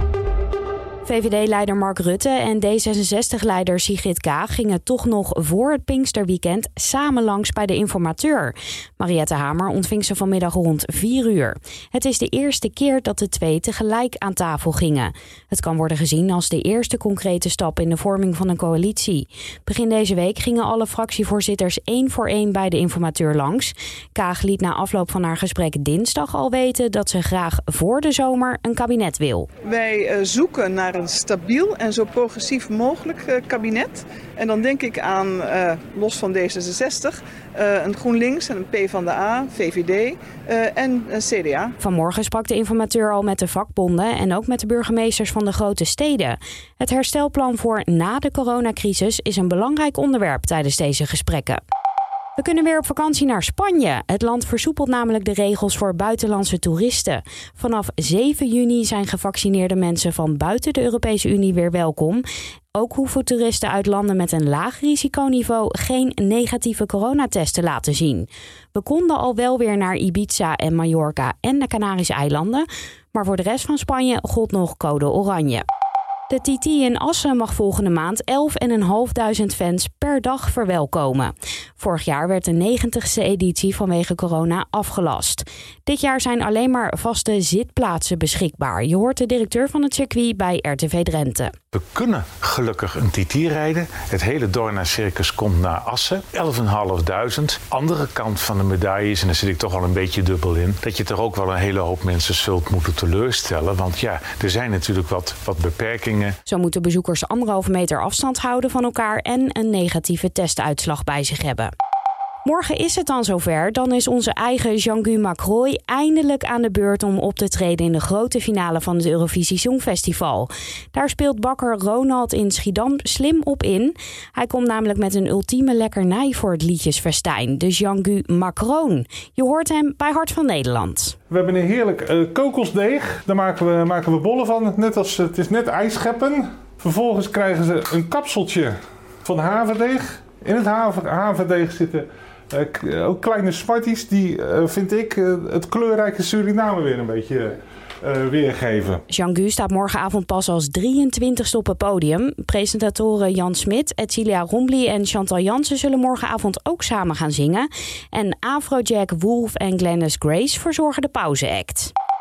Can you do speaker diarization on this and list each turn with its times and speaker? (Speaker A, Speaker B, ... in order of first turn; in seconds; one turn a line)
Speaker A: 1.0-29.5
Speaker B: 29.7-41.7
Speaker A: 41.8-51.6
Speaker A: 52.4-75.7
Speaker A: 76.3-91.5
Speaker C: 91.7-106.4
Speaker A: 106.5-111.7
Speaker A: 112.5-131.2
Speaker D: 131.3-149.0
Speaker A: 149.1-161.9